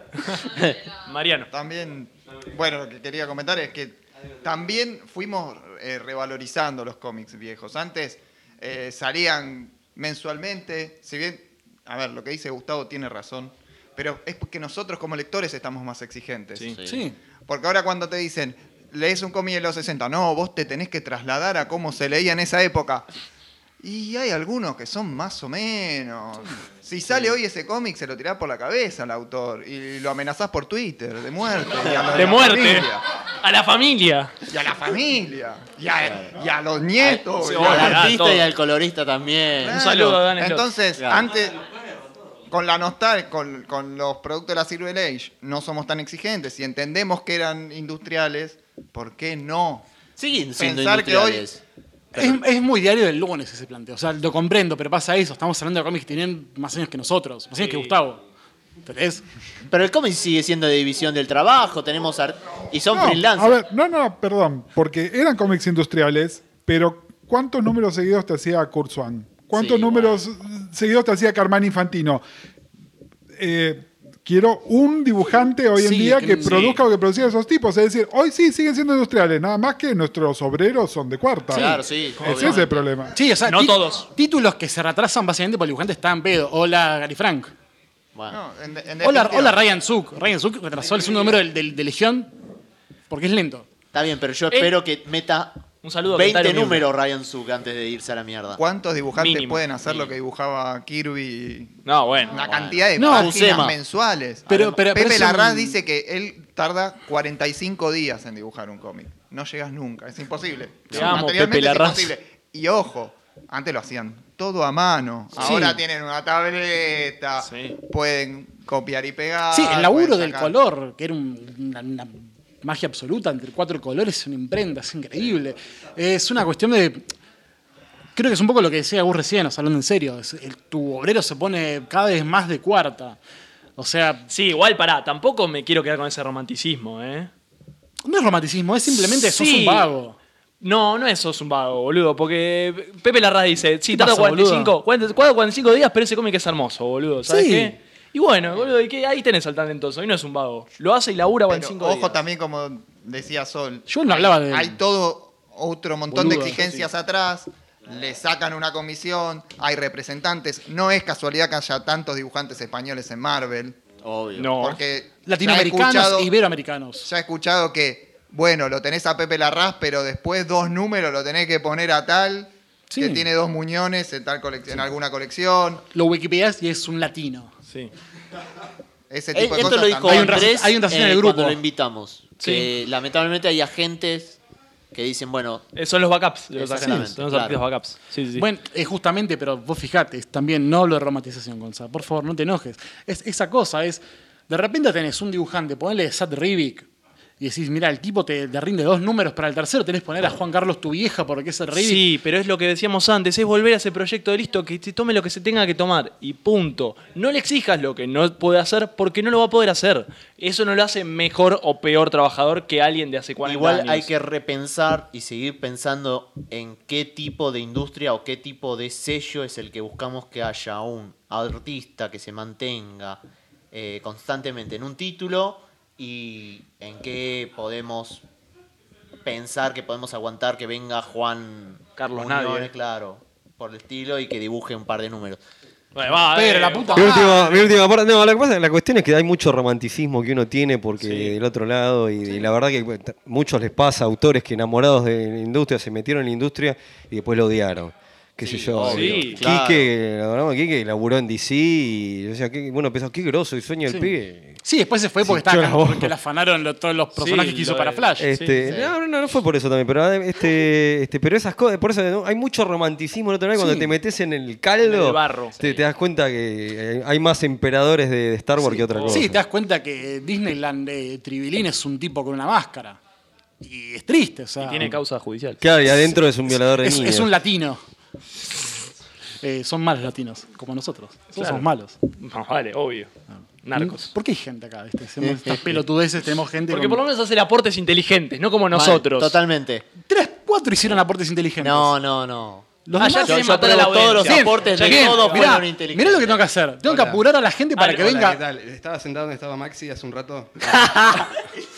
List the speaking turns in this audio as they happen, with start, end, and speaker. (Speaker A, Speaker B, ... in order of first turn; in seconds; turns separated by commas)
Speaker A: 0.1-1.5, Speaker B: 0.5-0.8, Speaker C: 1.5-16.8, Speaker B: 16.7-17.1, Speaker D: 16.8-17.2, Speaker C: 17.5-23.1, Speaker C: 23.8-33.0, Speaker B: 31.8-32.1, Speaker A: 32.1-34.3, Speaker C: 34.5-38.1, Speaker B: 36.0-36.4, Speaker A: 37.4-38.5, Speaker B: 37.6-39.8, Speaker C: 39.6-41.6, Speaker A: 39.7-40.7, Speaker B: 41.0-41.3, Speaker C: 42.5-49.8, Speaker B: 50.2-51.6, Speaker C: 50.6-51.5, Speaker B: 52.1-52.4, Speaker D: 52.1-58.2, Speaker A: 57.6-57.9, Speaker D: 58.9-59.2, Speaker B: 59.7-63.6, Speaker E: 62.9-72.2, Speaker B: 69.5-70.2, Speaker E: 73.3-83.1, Speaker D: 75.8-76.7, Speaker A: 76.4-76.8, Speaker B: 81.5-82.8, Speaker D: 81.5-82.5, Speaker D: 83.1-87.5, Speaker A: 83.4-84.0, Speaker C: 88.3-89.6, Speaker D: 89.0-92.3, Speaker D: 93.1-93.7, Speaker B: 93.9-98.6, Speaker A: 95.8-96.8, Speaker C: 98.6-101.8, Speaker A: 99.2-99.6, Speaker B: 99.8-100.1, Speaker A: 101.8-102.4, Speaker C: 102.3-120.5, Speaker B: 102.4-103.8, Speaker D: 103.0-103.4, Speaker D: 104.5-105.8, Speaker A: 110.9-112.1, Speaker D: 115.4-115.7, Speaker A: 117.4-117.8, Speaker D: 119.5-127.1, Speaker D: 128.2-133.2, Speaker D: 133.8-134.3, Speaker A: 134.3-137.3, Speaker D: 138.0-140.2, Speaker A: 138.9-139.9, Speaker A: 140.6-152.2, Speaker D: 143.9-144.7, Speaker D: 147.3-147.8, Speaker C: 151.5-163.8, Speaker D: 153.9-154.8, Speaker D: 156.1-156.6, Speaker B: 164.0-164.5, Speaker A: 164.4-164.8, Speaker C: 164.6-166.3, Speaker D: 165.2-167.1, Speaker C: 167.0-175.8, Speaker D: 172.9-173.3, Speaker D: 175.9-177.5, Speaker C: 179.1-180.5, Speaker B: 179.3-184.4, Speaker D: 180.0-181.6, Speaker A: 182.4-182.7, Speaker B: 184.9-185.7, Speaker A: 185.7-188.4, Speaker B: 186.5-187.6, Speaker D: 188.3-196.9, Speaker D: 197.4-202.0, Speaker A: 201.7-214.1, Speaker B: 213.4-223.2, Speaker B: 223.7-228.2, Speaker B: 229.2-235.4, Speaker A: 232.0-232.7, Speaker A: 235.9-237.7, Speaker D: 236.3-237.3, Speaker F: 236.9-254.6, Speaker A: 241.0-241.3, Speaker B: 248.4-249.9, Speaker A: 248.8-249.4, Speaker D: 253.9-258.3, Speaker F: 255.2-256.1, Speaker A: 257.1-258.6, Speaker F: 258.2-269.4, Speaker B: 258.6-258.9, Speaker D: 263.6-263.9, Speaker A: 264.8-265.7, Speaker A: 268.7-269.2, Speaker D: 269.1-273.0, Speaker D: 273.6-275.0, Speaker A: 274.6-275.6, Speaker F: 275.6-277.3, Speaker D: 276.7-277.8, Speaker D: 279.4-282.0, Speaker A: 281.4-281.6, Speaker A: 282.2-283.1, Speaker A: 283.6-284.1, Speaker D: 283.7-287.0, Speaker B: 285.2-285.6, Speaker A: 286.7-289.4, Speaker B: 288.7-289.9, Speaker D: 290.1-291.9, Speaker B: 291.6-296.4, Speaker D: 292.9-298.4, Speaker A: 293.0-295.6, Speaker G: 296.8-297.2, Speaker G: 297.8-301.0, Speaker B: 300.7-301.3